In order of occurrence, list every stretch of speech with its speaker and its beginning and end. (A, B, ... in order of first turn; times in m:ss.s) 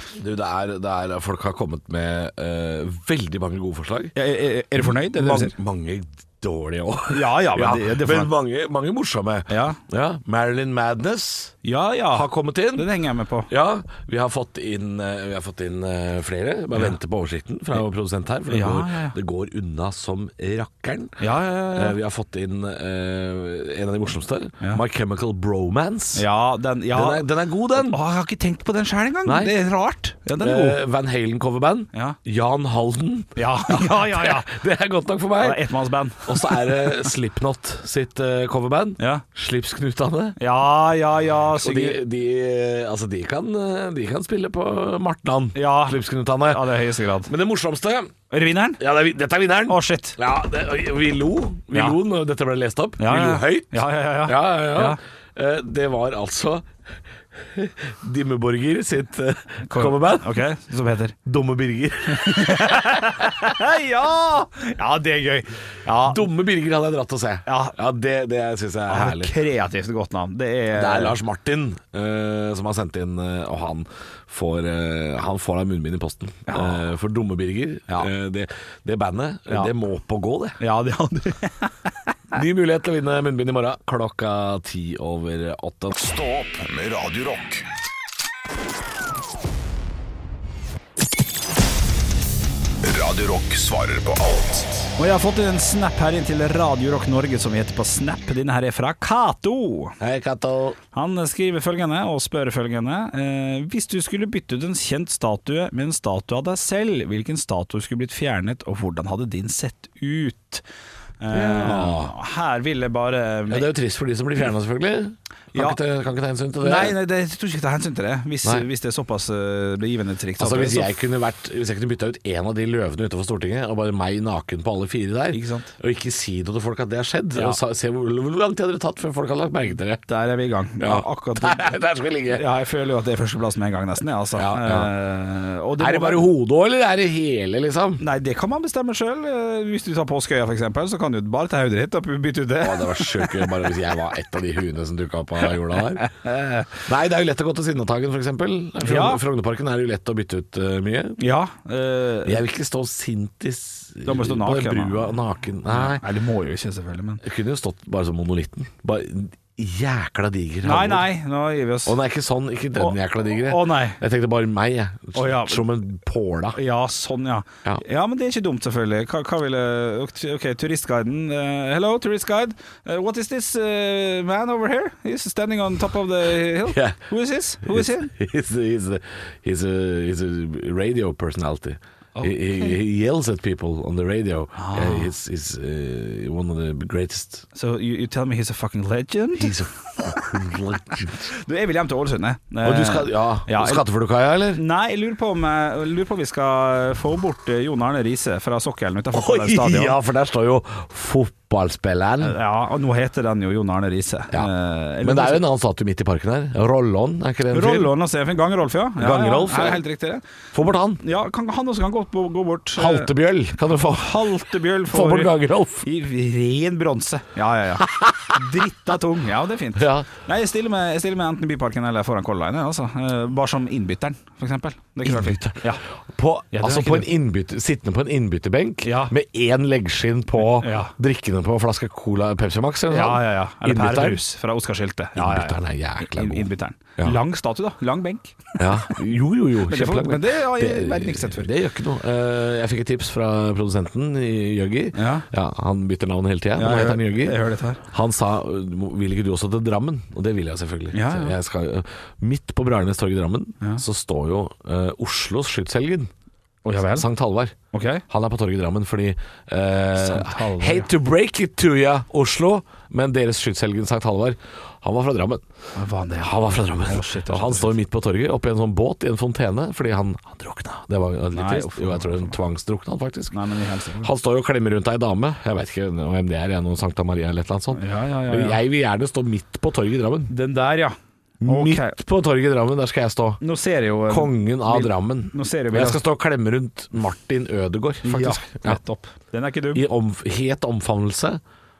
0:00.2-0:04.1 A
0:04.1-0:05.5 B
0:04.8-0:11.5 A
0:07.1-0:08.3 B
0:09.5-0:09.8 B
0:11.6-0:13.5 B
0:12.1-0:12.9 A
0:13.5-0:21.2 A
0:18.5-0:19.1 B
0:21.2-0:22.0 B
0:21.7-0:26.2 A
0:26.1-0:30.8 B
0:26.9-0:28.0 A
0:29.2-0:29.5 A
0:30.4-0:35.6 A
0:33.4-0:34.5 B
0:35.4-0:37.0 B
0:36.2-0:40.4 A
0:39.0-0:39.2 B
0:40.4-0:42.0 B
0:41.6-0:46.7 A
0:45.5-0:47.3 B
0:47.2-0:48.1 A
0:48.3-0:48.8 B
0:48.8-0:56.7 A
0:49.7-0:50.2 B
0:51.7-0:52.0 B
0:53.0-0:55.0 B
0:57.3-1:00.4 A
0:59.7-1:01.1 B
1:01.2-1:03.2 A
1:02.1-1:06.2 B
1:06.0-1:09.3 A
1:07.4-1:07.8 B
1:08.9-1:11.2 B
1:10.7-1:20.6 A
1:16.5-1:16.8 B
1:19.5-1:19.7 B
1:20.6-1:21.9 B
1:22.3-1:25.9 A
1:25.9-1:27.6 C
1:32.8-1:34.9 C
1:35.0-1:40.0 B
1:40.0-1:40.8 A
1:40.9-1:50.6 B
1:51.2-1:53.7 B
1:51.3-1:52.1 A
1:53.5-1:57.0 A
1:55.5-1:55.8 B
1:56.6-2:00.9 B
2:00.4-2:10.0 A
2:05.3-2:05.7 B
2:10.1-2:11.7 B
2:10.8-2:12.4 A
2:12.3-2:16.3 B
2:14.4-2:14.9 A
2:15.8-2:18.0 A
2:18.0-2:23.5 B
2:22.6-2:26.0 A
2:25.8-2:26.7 B
2:26.8-2:31.2 A
2:28.8-2:29.2 B
2:31.2-2:32.4 B
2:32.2-2:36.0 A
2:34.0-2:35.1 B
2:35.7-2:37.2 B
2:37.2-2:41.1 A
2:40.6-2:42.0 B
2:41.8-2:46.6 A
2:42.8-2:44.0 B
2:45.1-2:45.6 B
2:46.5-2:58.1 B
2:56.6-2:57.1 A
2:57.6-3:07.4 A
3:02.2-3:02.8 B
3:04.6-3:05.1 B
3:07.5-3:09.6 B
3:09.4-3:11.3 A
3:11.2-3:13.8 B
3:12.6-3:14.6 A
3:14.5-3:20.0 B
3:19.1-3:22.4 A
3:22.2-3:25.4 B
3:24.3-3:27.9 A
3:27.5-3:30.2 B
3:29.0-3:29.8 A
3:30.5-3:31.0 A
3:31.0-3:33.1 B
3:32.8-3:35.8 A
3:33.9-3:45.8 B
3:37.8-3:38.4 A
3:39.8-3:40.1 A
3:45.0-3:54.2 A
3:46.5-3:47.1 B
3:48.8-3:49.1 B
3:50.4-3:50.9 B
3:52.9-3:59.0 B
3:55.2-3:57.2 A
3:58.6-4:16.1 A
3:59.6-4:01.5 B
4:04.9-4:05.2 B
4:06.6-4:07.8 B
4:10.9-4:11.4 B
4:16.6-4:17.1 B
4:16.8-4:17.6 A
4:17.7-4:18.0 B
4:18.1-4:25.4 A
4:19.9-4:20.9 B
4:25.7-4:27.7 B
4:26.2-4:33.3 A
4:31.3-4:32.4 B
4:33.3-4:34.1 B
4:34.0-4:40.3 A
4:37.7-4:38.6 B
4:40.3-4:42.0 B
4:41.4-4:43.4 A
4:43.4-4:46.0 B
4:44.1-4:48.8 A
4:48.0-4:49.8 B
4:49.7-4:51.4 A